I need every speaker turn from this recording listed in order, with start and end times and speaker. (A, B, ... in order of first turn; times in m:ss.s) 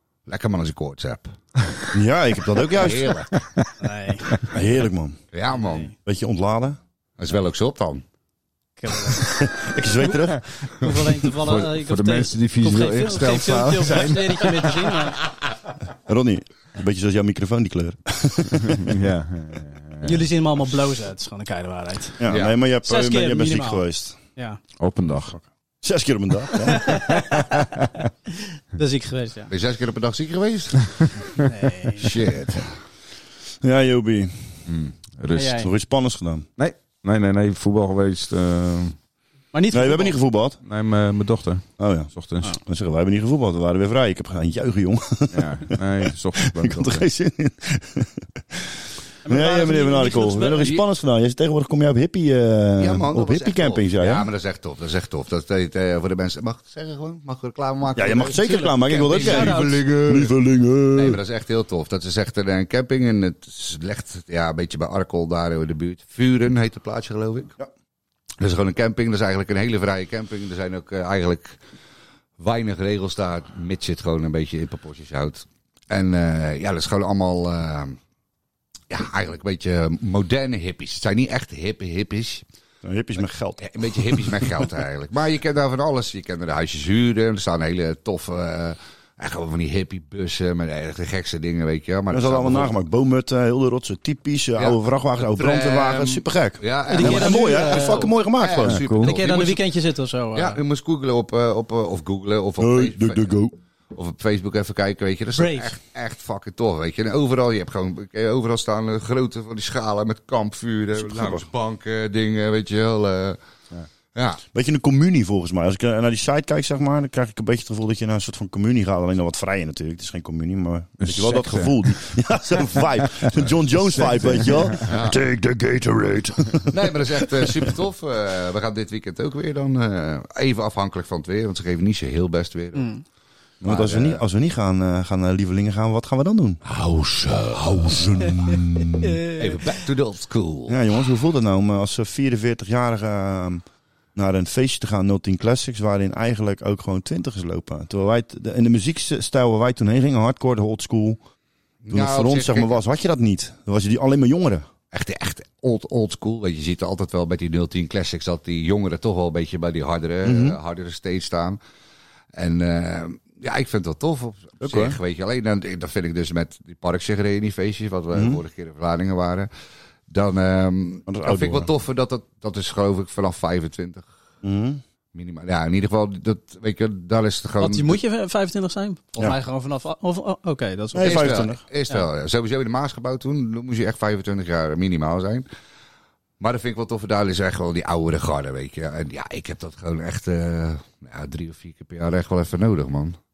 0:00.3-0:01.7 A
0:01.9-0:03.2 B
0:02.6-0:03.3 A
0:03.3-0:03.7 C
0:03.8-0:04.4 D
0:04.5-0:05.2 B
0:05.3-0:05.9 A
0:05.5-0:05.9 D
0:06.0-0:06.8 B
0:07.2-0:08.0 A
0:08.8-0:09.4 D
0:09.2-0:10.4 B
0:10.3-0:14.8 C
0:10.8-0:15.2 D
0:16.0-0:18.9 B
0:18.6-0:20.2 C
0:20.0-0:22.2 D
0:22.2-0:24.2 B
0:22.3-0:22.5 A
0:22.8-0:23.8 D
0:24.4-0:24.6 D
0:24.8-0:25.4 C
0:25.8-0:27.6 B
0:26.5-0:27.7 D
0:28.3-0:29.5 D
0:29.5-0:30.9 A
0:31.4-0:32.1 D
0:32.0-0:32.7 A
0:33.6-0:34.3 B
0:34.7-0:35.6 C
0:35.3-0:35.7 D
0:35.6-0:36.5 B
0:36.6-0:39.0 C
0:39.5-0:40.2 D
0:39.7-0:40.6 B
0:40.6-0:42.5 C
0:41.8-0:54.3 B
0:45.3-0:47.0 C
0:49.2-0:50.8 D
0:52.8-1:00.3 A
0:57.9-1:01.2 B
0:58.8-0:59.8 D
1:00.9-1:07.5 A
1:08.4-1:11.6 A
1:12.4-1:18.0 A
1:18.9-1:22.4 A
1:22.8-1:24.6 B
1:23.6-1:32.7 A
1:32.1-1:38.8 B
1:34.6-1:39.6 A
1:36.9-1:38.1 D
1:38.6-1:39.2 C
1:39.0-1:40.6 D
1:40.3-1:43.3 A
1:42.6-1:43.5 B
1:43.9-1:53.4 A
1:45.3-1:45.7 D
1:51.0-1:51.5 B
1:54.1-1:54.4 A
1:54.5-2:07.7 B
2:01.0-2:01.9 C
2:03.2-2:04.9 C
2:04.8-2:05.2 A
2:06.7-2:12.9 A
2:12.7-2:13.0 D
2:13.6-2:14.2 A
2:13.6-2:16.6 B
2:16.6-2:18.5 A
2:17.8-2:19.2 B
2:19.0-2:19.6 D
2:19.3-2:20.8 A
2:20.7-2:23.6 B
2:24.1-2:31.2 B
2:31.8-2:32.8 A
2:31.9-2:34.6 B
2:34.9-2:41.6 A
2:40.2-2:40.6 B
2:42.3-2:49.5 A
2:44.6-2:45.0 B
2:48.1-2:48.4 B
2:50.1-2:54.1 A
2:51.1-2:51.7 B
2:54.4-2:54.8 B
2:55.1-2:58.0 A
2:57.6-3:02.0 D
3:00.9-3:01.6 B
3:01.0-3:05.5 A
3:06.4-3:13.2 A